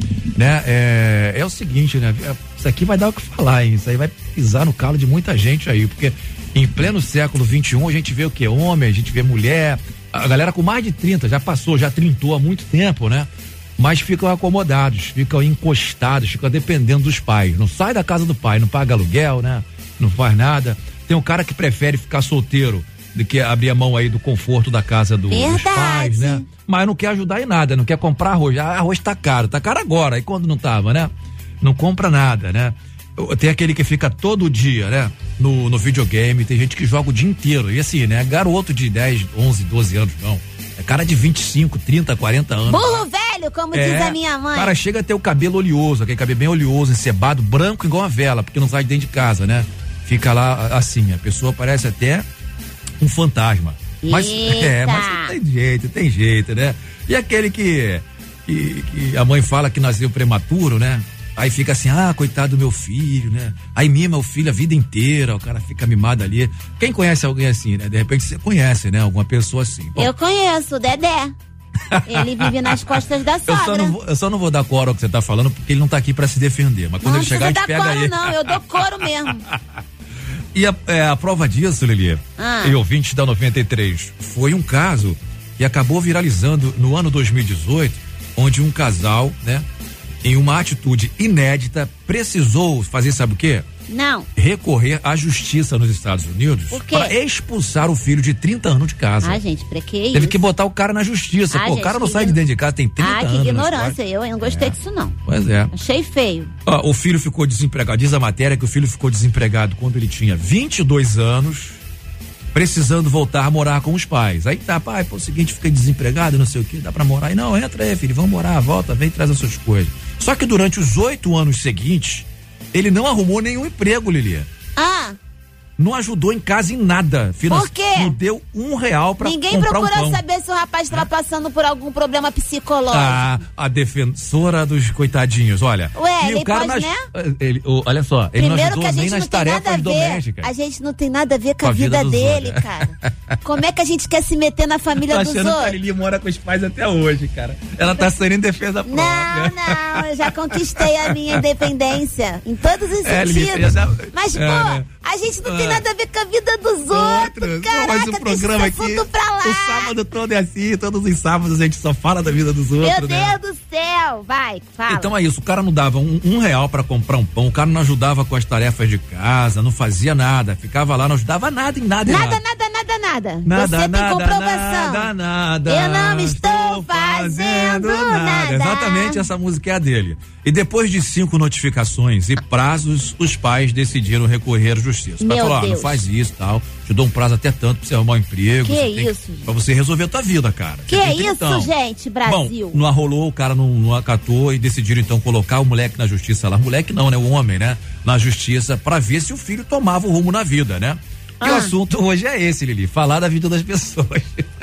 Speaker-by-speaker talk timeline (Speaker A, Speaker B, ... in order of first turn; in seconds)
Speaker A: 0.3-43.0, 43.7-52.2, 53.0-70.1, 71.9-72.8, 73.5-78.5, 80.5-89.7, 90.2-93.7, 94.3-99.4, 100.1-105.7, 106.6-111.8, 112.5-124.5, 125.8-130.2, 132.9-140.5, 141.6-143.1, 145.0-151.4, 153.0-154.8, 155.4-155.8, 156.9-163.4, 164.9-172.4, 173.4-191.7, 192.2-204.5
Speaker B: 25.3-26.4, 42.7-44.7, 54.0-55.3, 70.0-71.3, 72.0-74.0, 77.0-79.4, 82.4-82.8, 93.9-94.3, 96.7-97.1, 99.2-100.4, 101.5-102.4, 103.0-105.2, 105.7-106.5, 124.8-125.2, 127.5-128.1, 129.2-133.4, 135.9-137.0, 138.3-145.7, 148.8-159.9, 162.8-165.1, 172.1-175.1, 175.7-179.2, 185.2-186.0, 188.6-189.4, 190.9-192.8, 201.4-201.7